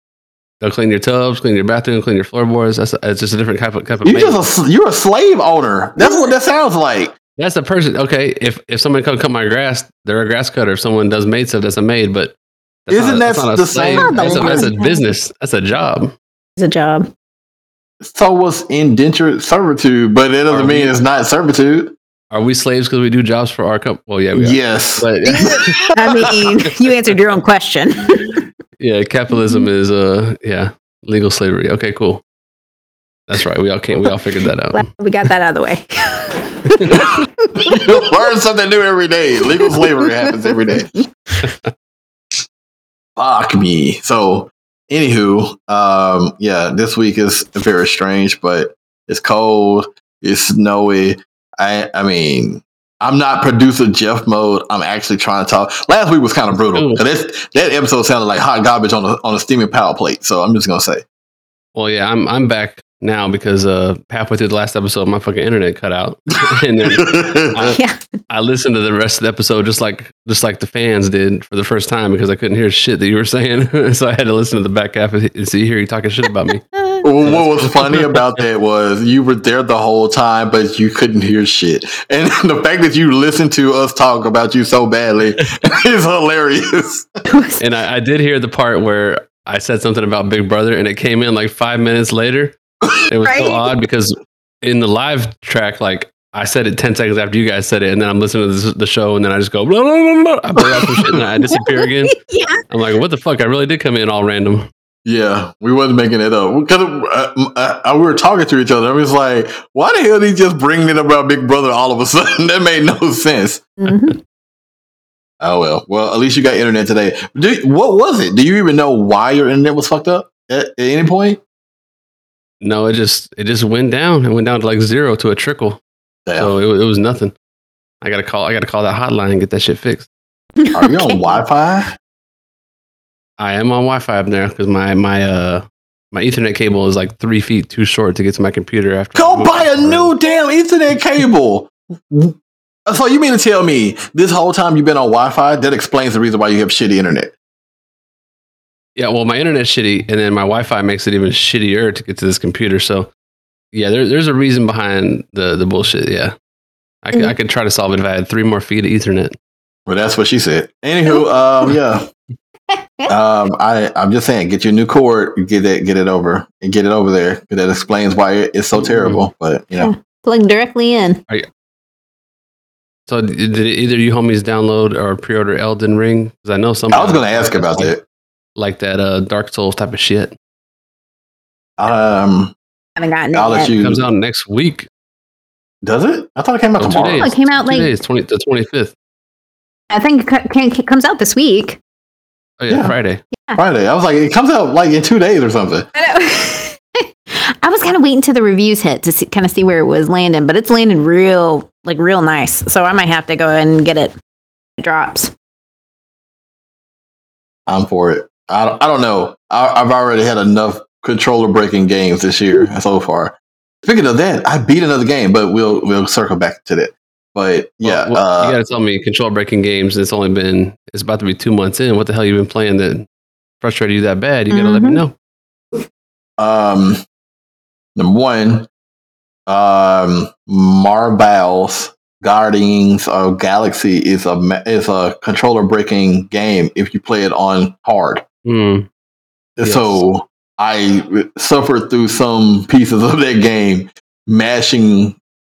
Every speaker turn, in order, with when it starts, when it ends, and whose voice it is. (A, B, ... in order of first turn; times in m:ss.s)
0:00.6-0:04.4 A
0:04.0-0:07.1 B
0:06.0-0:06.3 C
0:07.4-0:12.4 A
0:12.9-0:16.1 A
0:12.9-0:14.7 B
0:13.9-0:15.0 C
0:16.6-0:17.1 C
0:18.0-0:22.0 B
0:20.5-0:21.0 A
0:22.3-0:25.8 A
0:24.4-0:26.3 B
0:25.9-0:28.4 C
0:28.8-0:32.2 A
0:29.4-0:29.7 C
0:33.3-0:34.8 A
0:34.7-0:37.8 C
0:36.9-0:40.9 B
0:39.6-0:41.0 C
0:41.4-0:41.7 A
0:43.2-1:01.0 B
0:56.7-0:57.0 A
1:01.8-1:16.6 A
1:06.8-1:07.7 B
1:07.8-1:08.0 C
1:16.7-1:17.0 C
1:17.0-1:27.1 B
1:17.2-1:18.2 A
1:27.3-1:27.6 C
1:27.6-1:42.2 A
1:33.2-1:33.6 C
1:40.6-1:41.2 B
1:41.7-1:42.6 C
1:42.7-1:44.7 A
1:45.0-1:53.7 B
1:53.8-1:54.2 C
1:55.4-2:01.4 B
2:02.6-2:05.8 A
2:06.3-2:06.5 B
2:06.4-2:07.3 A
2:08.0-2:10.1 A
2:10.6-2:11.4 C
2:10.7-2:12.0 B
2:13.4-2:20.1 A
2:19.2-2:22.4 B
2:22.9-2:27.3 B
2:29.0-2:33.1 A
2:33.7-2:36.3 A
2:37.0-2:39.4 A
2:39.9-2:42.1 B
2:42.7-2:43.1 C
2:43.1-2:49.9 B
2:48.7-2:49.2 A
2:49.8-2:51.2 C
2:53.1-2:57.9 A
2:56.9-2:58.0 B
2:58.6-3:00.4 A
3:01.8-3:02.6 B
3:03.0-3:03.8 C
3:03.3-3:04.1 B
3:03.8-3:04.9 A
3:05.8-3:07.3 B
3:06.8-3:08.9 A
3:07.1-3:07.9 C
3:09.9-3:11.8 C
3:12.6-3:13.2 A
3:12.7-3:13.0 B
3:13.4-3:13.6 C
3:13.6-3:15.9 B
3:16.0-3:24.1 C
3:24.8-3:25.3 C
3:27.7-3:38.6 B
3:37.8-3:43.1 A
3:43.6-3:45.1 A
3:44.5-3:45.0 C
3:46.4-3:47.0 B
3:48.0-3:48.7 B
3:49.5-3:58.2 B
3:58.4-3:58.9 A
3:59.6-4:05.2 B
3:59.6-4:00.0 A